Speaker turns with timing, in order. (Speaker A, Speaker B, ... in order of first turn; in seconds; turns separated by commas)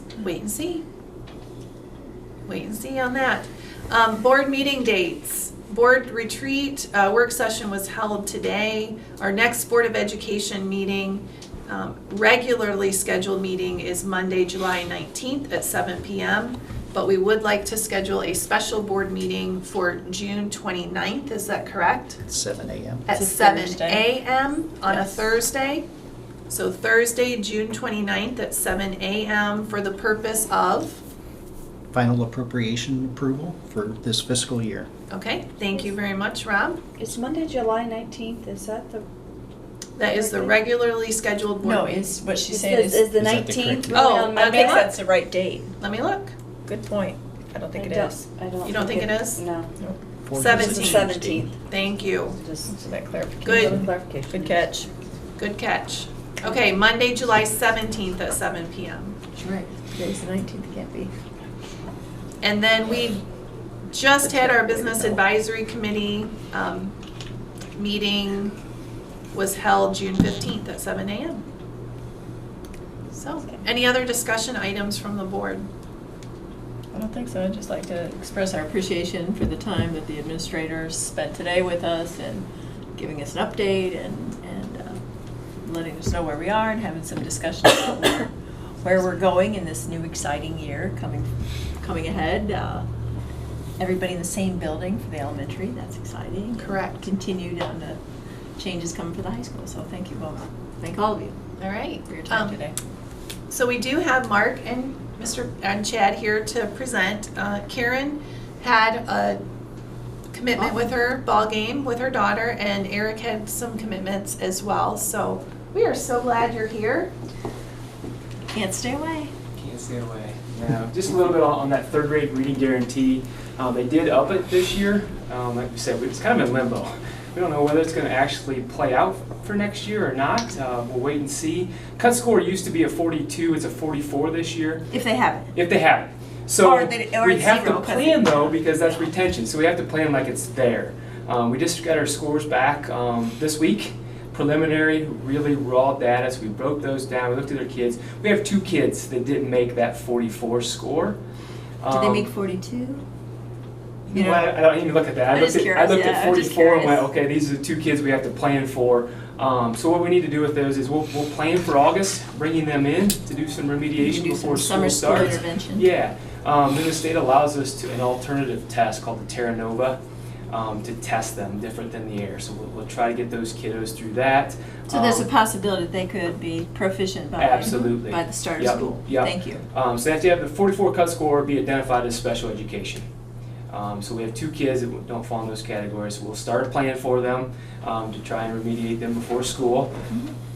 Speaker A: 0.2-0.8, Speaker A: 2.5-22.2, Speaker B: 22.2-23.1, Speaker A: 23.1-25.8, Speaker C: 23.1-24.1, Speaker C: 24.9-25.2, Speaker A: 26.5-31.0, Speaker B: 31.9-34.9, Speaker A: 35.1-36.8, Speaker D: 37.0-39.0, Speaker A: 40.0-42.2, Speaker D: 40.1-40.6, Speaker C: 41.6-43.2, Speaker D: 42.5-44.8, Speaker B: 43.1-44.2, Speaker A: 43.9-45.0, Speaker C: 44.4-45.7, Speaker A: 45.8-46.3, Speaker C: 46.6-48.2, Speaker D: 47.7-49.7, Speaker A: 48.6-49.4, Speaker B: 50.2-51.5, Speaker A: 50.3-51.1, Speaker D: 50.5-51.5, Speaker A: 51.6-52.4, Speaker D: 52.4-52.7, Speaker C: 52.7-54.9, Speaker A: 53.4-53.8, Speaker D: 53.6-54.6, Speaker A: 55.4-59.2, Speaker C: 59.4-61.1, Speaker A: 62.4-63.2, Speaker A: 63.9-66.9, Speaker C: 64.4-64.9, Speaker A: 67.8-68.5, Speaker A: 69.3-71.4, Speaker A: 73.1-75.7, Speaker C: 76.9-85.0, Speaker C: 85.6-92.8, Speaker C: 93.8-98.0, Speaker A: 96.6-97.1, Speaker C: 98.6-101.3, Speaker A: 101.6-102.6, Speaker C: 102.1-102.8, Speaker A: 103.5-109.4, Speaker A: 110.3-117.1, Speaker C: 110.6-110.9, Speaker C: 118.5-119.3, Speaker E: 119.5-134.9, Speaker C: 134.9-135.6, Speaker E: 135.5-151.2, Speaker C: 136.6-138.6, Speaker E: 151.8-152.3, Speaker C: 151.9-153.0, Speaker E: 154.1-170.0, Speaker C: 154.1-154.5, Speaker C: 155.3-157.1, Speaker C: 164.0-165.9, Speaker E: 170.5-175.2, Speaker C: 174.9-179.6, Speaker E: 177.4-183.0, Speaker E: 183.7-189.9